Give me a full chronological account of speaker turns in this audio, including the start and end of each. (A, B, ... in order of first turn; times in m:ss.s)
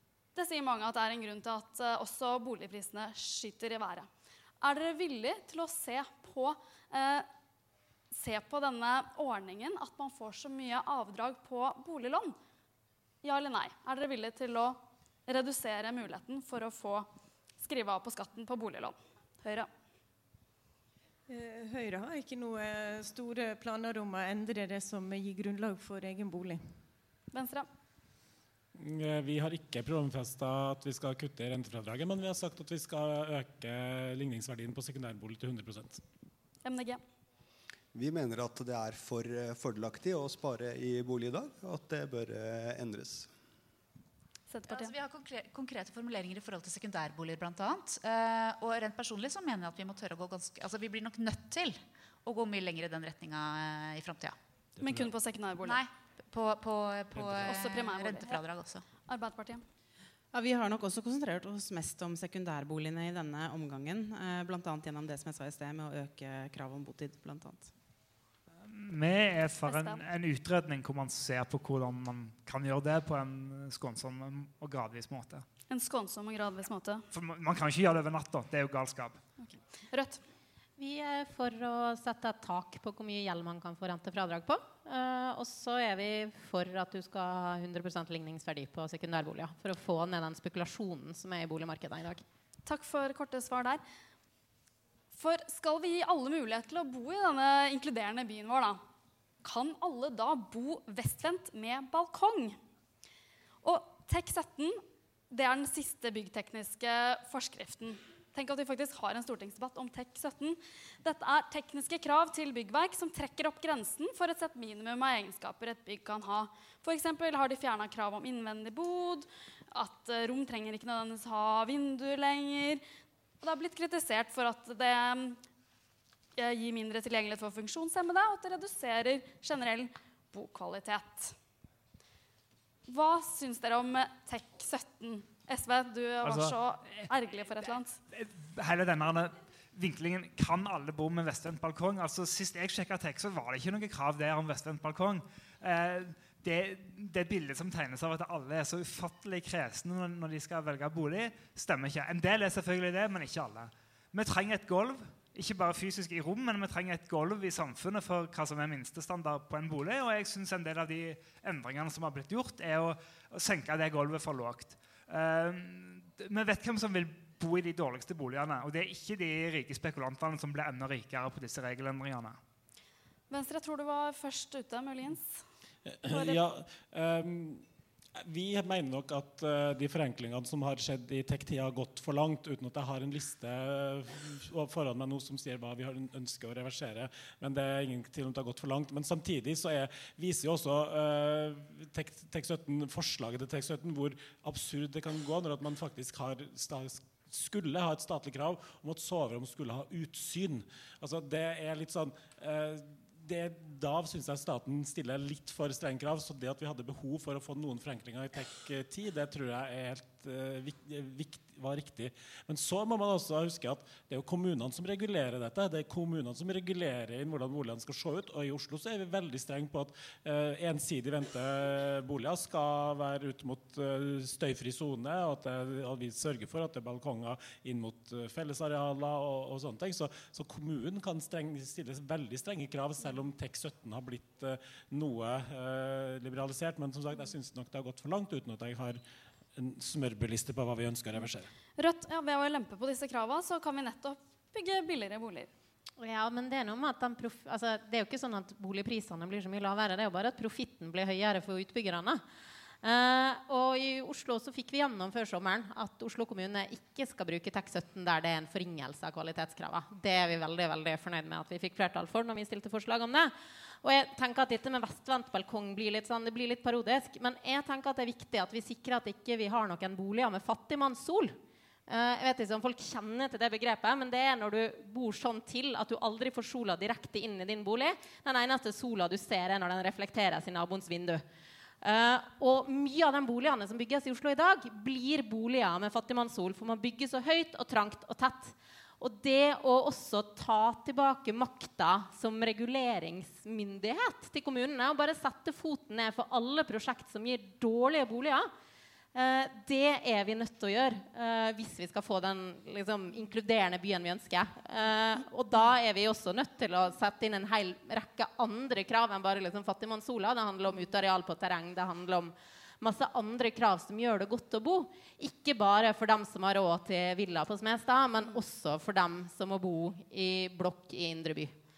0:00.4-0:04.1 A
0:04.6-0:07.3 A
0:08.1-0:12.4 A
0:13.2-0:19.7 A
0:21.3-0:26.6 B
0:27.3-0:27.7 A
0:28.8-0:36.0 C
0:36.6-0:37.0 A
0:37.9-0:43.3 D
0:44.5-0:44.9 A
0:44.7-0:54.4 E
0:54.8-0:55.8 A
0:55.6-0:58.8 E
0:57.4-0:58.4 A
0:59.1-0:59.6 A
1:00.3-1:07.7 F
1:08.6-1:15.5 G
1:09.6-1:10.0 A
1:15.7-1:17.0 A
1:17.1-1:19.2 G
1:19.4-1:20.2 A
1:20.8-1:32.2 H
1:32.7-1:33.8 A
1:35.1-1:38.8 A
1:39.4-1:42.6 A
1:43.6-2:02.8 A
2:03.4-2:05.4 A
2:06.4-2:11.4 A
2:12.9-2:18.0 A
2:16.2-2:17.1 G
2:18.1-2:52.4 G
2:53.3-2:55.4 A
2:55.9-3:59.0 C
2:56.1-2:56.4 A
3:59.6-4:01.5 C
4:01.8-4:05.5 A
4:06.0-4:12.2 H
4:12.8-4:31.4 H
4:31.9-4:41.2 H
4:41.8-4:58.5 H
4:59.1-5:21.5 H